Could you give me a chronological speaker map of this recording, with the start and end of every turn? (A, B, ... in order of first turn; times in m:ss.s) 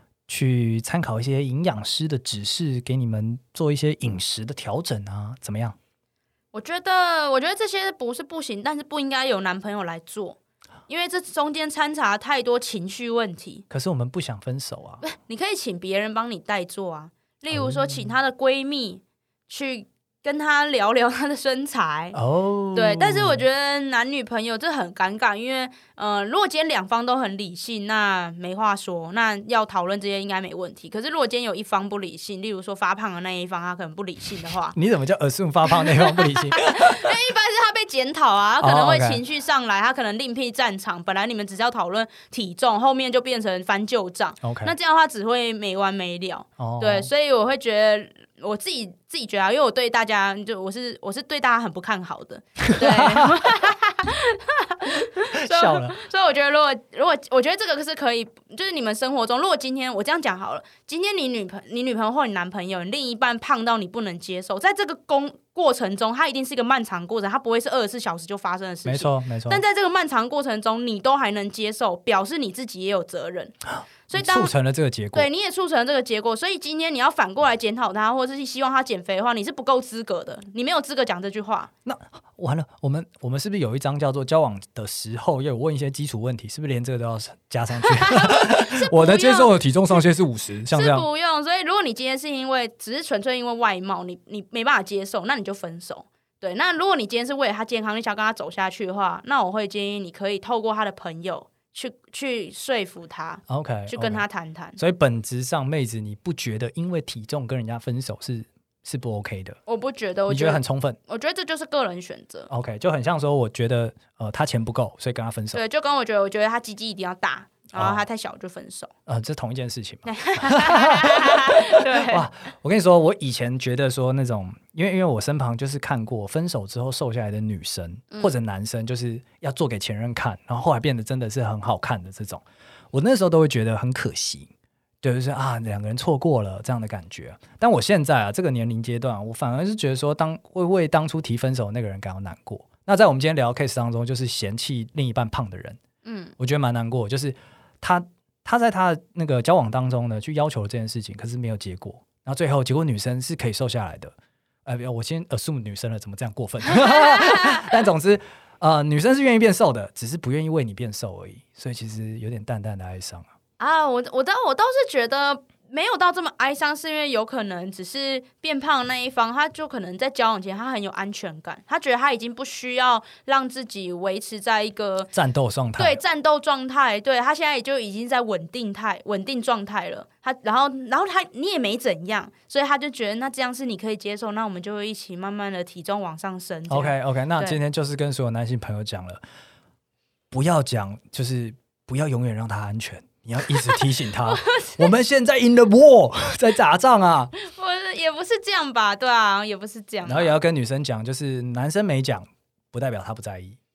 0:00.3-0:05.8 A
0:06.5-0:13.6 B
0:13.7-0:15.0 A
0:15.0-0:22.2 B
0:17.5-0:18.1 A
0:22.1-0:23.4 A
0:22.8-0:34.8 B
0:34.7-0:37.1 A
0:35.7-1:13.5 B
0:38.6-0:39.2 A
0:44.4-0:44.7 A
0:46.6-0:47.1 A
0:52.6-0:53.4 A
0:55.0-0:56.0 A
1:08.9-1:09.6 A
1:13.8-1:15.3 A
1:14.1-1:14.5 B
1:15.1-1:21.7 B
1:21.8-1:31.1 A
1:27.8-1:30.0 B
1:30.7-1:44.8 B
1:43.5-1:44.2 A
1:44.8-1:49.6 A
1:49.7-1:52.5 B
1:50.3-1:51.0 A
1:52.5-1:55.6 A
1:55.5-1:58.9 B
1:57.7-1:58.0 A
1:59.1-2:14.5 A
2:00.1-2:02.3 B
2:15.0-2:25.8 A
2:26.0-2:26.4 B
2:26.4-2:34.1 A
2:34.7-2:43.3 A
2:36.7-2:37.8 B
2:43.6-2:55.1 B
2:55.1-2:56.0 A
2:55.8-3:07.6 B
3:06.7-3:09.2 A
3:10.3-3:17.3 A
3:13.5-3:14.9 B
3:17.4-3:20.4 B
3:20.0-3:23.6 A